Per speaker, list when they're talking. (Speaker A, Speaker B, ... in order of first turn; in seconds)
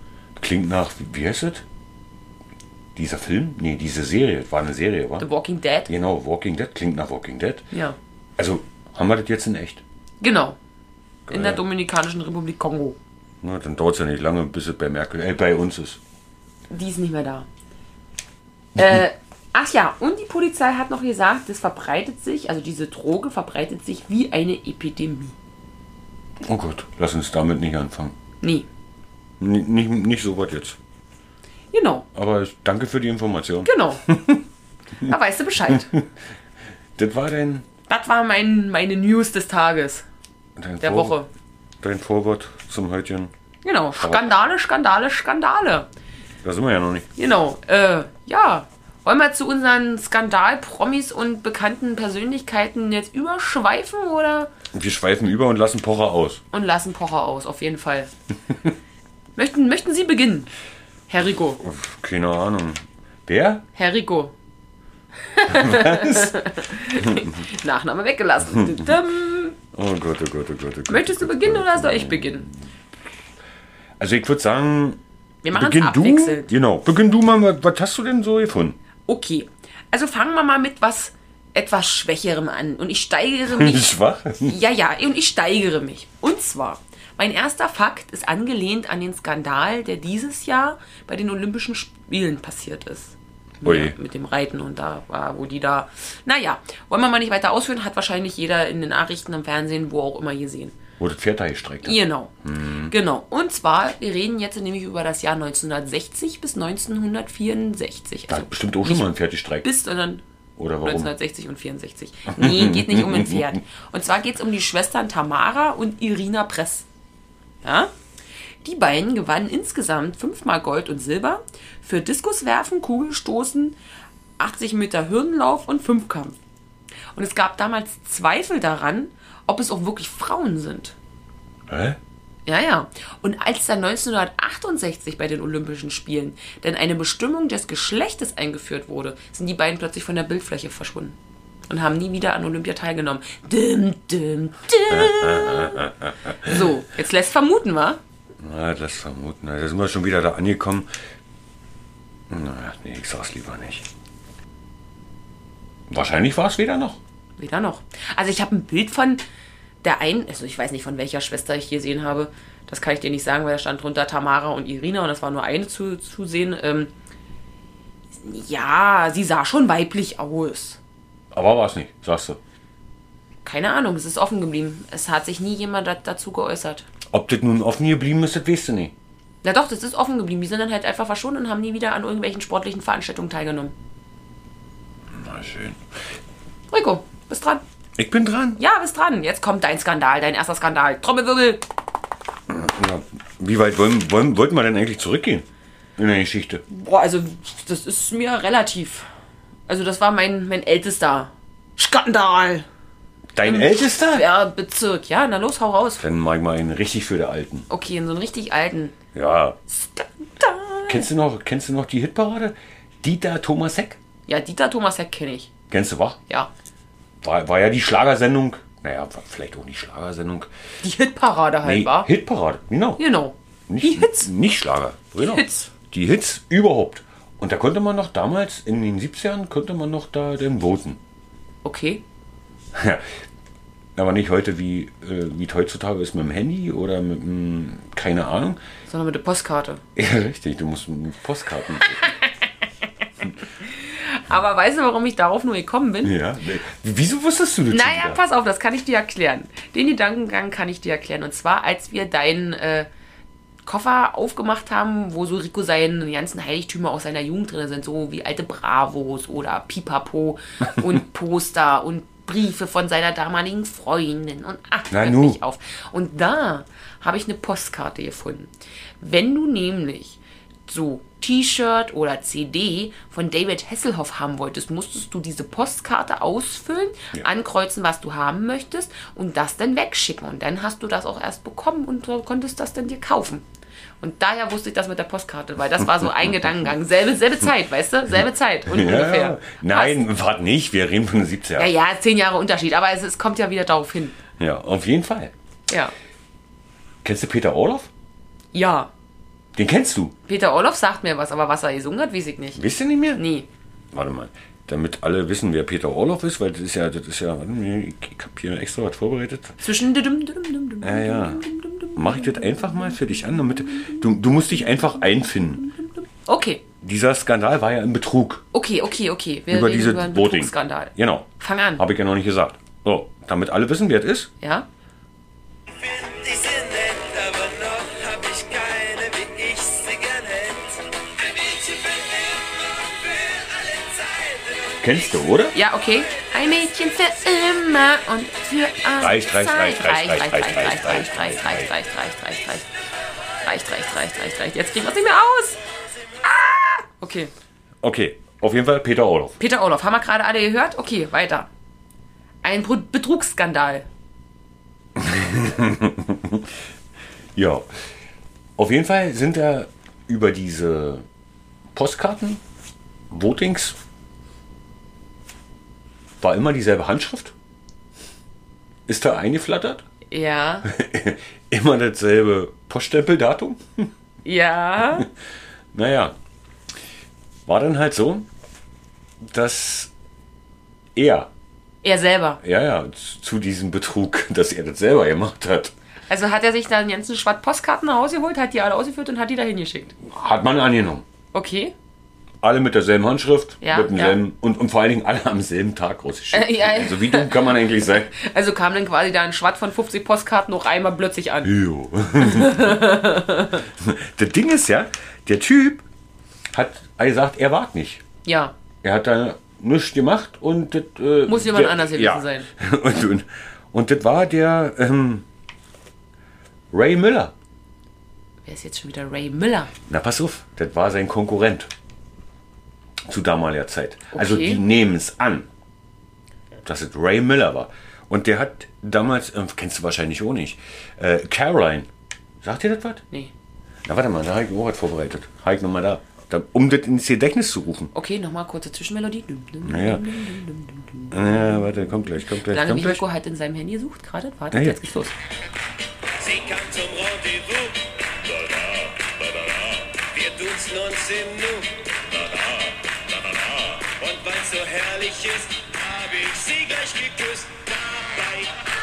Speaker A: 0.4-1.6, 2.9-5.2, 5.9-7.7, 8.4-9.8, 11.3-11.6, 13.4-16.0, 26.4-28.1, 29.4-30.8, 32.1-34.4, 35.7-36.1, 37.0-37.6, 40.6-41.1, 41.8-43.3, 44.0-44.3, 46.4-47.1, 54.7-56.4, 61.6-63.6, 65.5-66.3, 67.0-67.4, 68.5-68.9, 69.7-72.7, 74.0-75.0, 75.5-78.8, 83.5-84.6, 93.6-94.0, 101.0-102.9, 108.3-109.7, 110.6-111.1, 112.3-113.5, 131.7-132.0, 144.9-146.7, 148.4-150.9, 152.3-153.8, 155.9-157.0, 171.3-172.4, 177.1-178.9, 185.1-185.8, 188.0-188.6, 192.5-195.4, 196.0-196.6, 203.3-204.3, 206.0-207.7, 209.1-209.6, 210.9-214.0, 215.7-216.2, 217.2-220.5, 221.6-223.0, 223.7-231.0, 232.7-233.2, 233.9-238.6, 239.9-242.1, 246.0-248.2, 264.9-265.4, 288.7-291.7, 294.4-295.3, 297.0-297.9, 299.5-300.1, 302.6-303.2, 303.9-309.6, 310.8-315.7, 316.8-318.4, 319.5-324.3, 334.8-335.5, 339.0-341.7, 347.8-349.4, 354.9-356.5, 357.3-357.6, 358.6-361.0, 361.7-362.4, 363.1-363.8, 366.2-367.3, 368.9-369.8, 370.7-373.9, 375.7-376.1, 377.4-378.3, 379.2-379.9, 380.9-381.3, 382.4-385.7, 390.0-391.0, 392.4-398.1, 401.4-403.0, 403.6-405.8, 406.5-408.0, 408.8-415.2, 416.7-417.3, 419.9-421.7, 423.1-425.5, 426.6-431.9, 432.4-433.0, 433.8-437.9, 439.6-440.0, 441.1-443.0, 444.5-444.8
Speaker B: 5.2-5.9, 7.7-8.0, 10.2-10.6, 11.3-13.0, 16.7-17.5, 18.8-25.3, 31.7-32.0, 33.6-34.0, 35.0-35.9, 37.9-40.0, 40.8-41.3, 43.6-45.9, 47.1-54.5, 56.5-58.1, 59.4-60.5, 61.1-61.6, 63.7-64.3, 65.3-69.6, 70.9-72.5, 75.4-76.5, 79.1-83.9, 84.4-100.8, 101.8-102.3, 102.9-109.1, 109.6-110.2, 110.8-116.8, 117.6-117.9, 118.6-123.8, 124.4-126.4, 127.1-130.9, 132.5-141.2, 141.7-148.0, 157.4-159.2, 159.8-166.9, 168.2-170.8, 173.4-176.8, 179.4-183.7, 186.7-187.6, 188.6-191.7, 196.7-199.1, 199.7-202.7, 203.4-206.0, 207.7-208.9, 209.7-211.1, 214.3-215.5, 220.8-222.1, 223.0-224.3, 225.2-225.7, 231.6-232.0, 238.9-239.8, 243.6-246.2, 247.7-252.9, 253.6-283.4, 284.0-290.0, 291.6-294.2, 298.5-298.9, 300.3-302.6, 303.1-303.5, 309.6-312.8, 313.6-314.0, 316.2-316.6, 318.5-321.8, 324.4-324.7, 335.5-342.7, 343.4-345.6, 346.2-347.3, 349.4-351.5, 352.4-353.9, 370.1-370.7, 374.2-375.1, 381.8-382.4, 386.1-390.0, 391.3-391.7, 393.6-394.2, 396.3-397.6, 398.1-401.5, 402.2-403.6, 408.2-408.5, 411.2-412.5, 418.4-419.7, 424.1-424.6, 437.9-441.6, 442.5-445.1
Speaker C: 325.7-334.8, 446.2-458.6